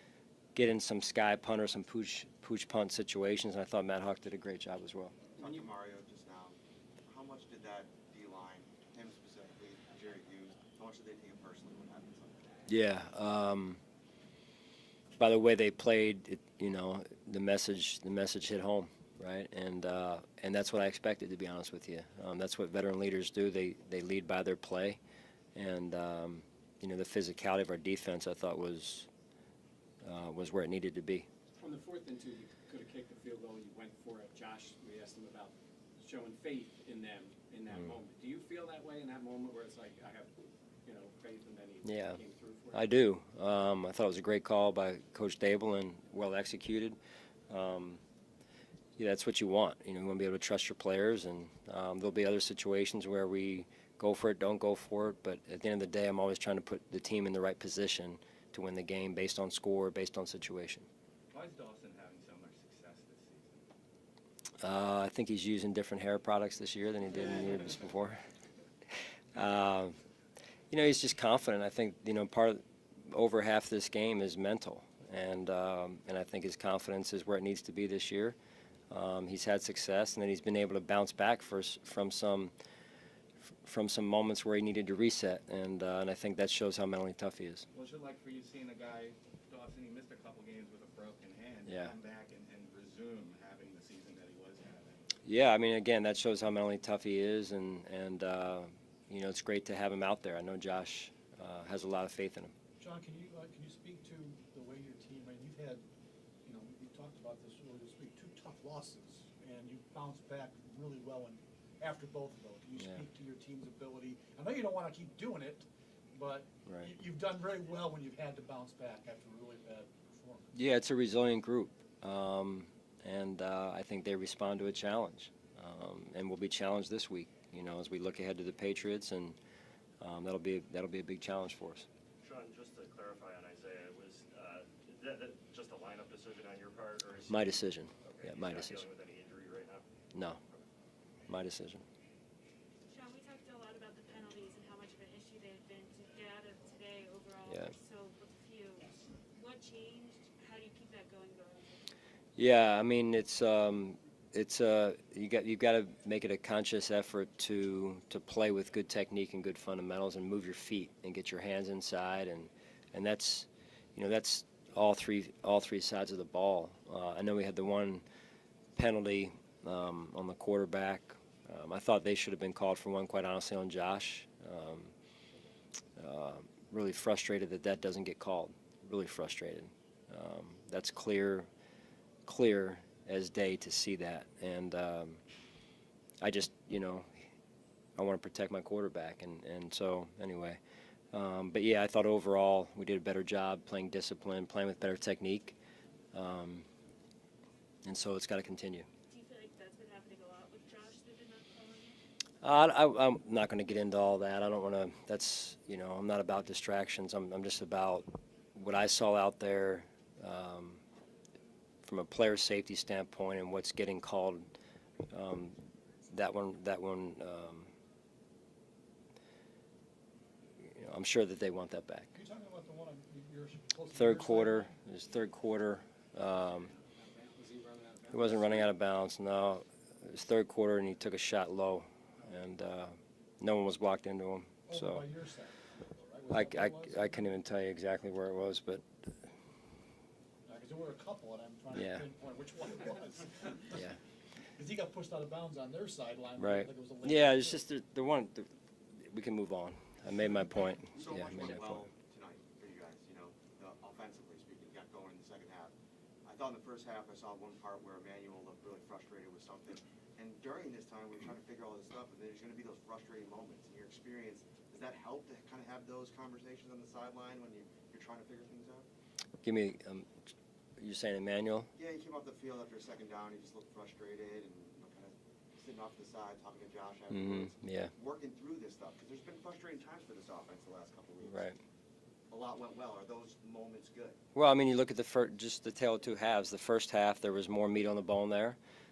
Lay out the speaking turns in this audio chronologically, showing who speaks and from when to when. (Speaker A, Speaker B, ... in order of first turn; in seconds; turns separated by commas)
Speaker A: 0.6-5.2, Speaker B: 5.4-12.7, Speaker C: 5.4-5.7, Speaker A: 12.7-13.8, Speaker A: 15.2-25.0, Speaker A: 25.6-29.1, Speaker A: 30.0-31.3, Speaker C: 31.6-42.9, Speaker A: 37.7-38.0, Speaker A: 41.8-42.2, Speaker A: 42.7-47.0, Speaker A: 47.5-48.0, Speaker A: 49.0-60.9, Speaker D: 61.3-63.6, Speaker A: 64.6-68.2, Speaker A: 69.3-70.0, Speaker A: 70.7-78.4, Speaker A: 78.9-82.5, Speaker A: 83.6-87.7, Speaker D: 87.7-95.0, Speaker A: 91.7-92.0, Speaker A: 95.2-102.5, Speaker E: 102.8-105.8, Speaker E: 106.5-120.5, Speaker A: 112.8-113.0, Speaker A: 116.7-117.0, Speaker A: 120.5-129.4, Speaker A: 130.0-131.9, Speaker F: 132.2-139.8, Speaker A: 137.3-138.9, Speaker A: 140.1-140.4, Speaker A: 141.3-141.8, Speaker G: 142.9-151.9, Speaker A: 147.5-147.7, Speaker A: 152.4-168.0, Speaker A: 168.8-174.9, Speaker A: 176.0-181.5, Speaker A: 182.3-185.2, Speaker A: 186.2-187.2, Speaker A: 188.0-190.6, Speaker A: 191.1-195.6, Speaker A: 196.1-196.7, Speaker A: 197.8-198.9, Speaker G: 199.1-202.0, Speaker A: 202.4-210.8, Speaker A: 211.8-214.5, Speaker A: 215.1-215.6, Speaker A: 216.1-217.7, Speaker A: 220.6-222.1, Speaker E: 222.1-224.8, Speaker A: 223.8-226.7, Speaker C: 226.6-228.8, Speaker A: 228.1-235.1, Speaker E: 234.7-237.3, Speaker A: 236.3-238.8, Speaker E: 240.5-243.8, Speaker A: 241.7-242.1, Speaker E: 244.6-247.6, Speaker A: 246.4-251.9, Speaker B: 250.9-255.7, Speaker B: 256.2-268.9, Speaker A: 269.4-270.2, Speaker A: 270.8-271.7, Speaker B: 271.8-281.5, Speaker A: 277.1-277.9, Speaker A: 281.2-281.6, Speaker B: 282.3-284.2, Speaker A: 284.4-288.6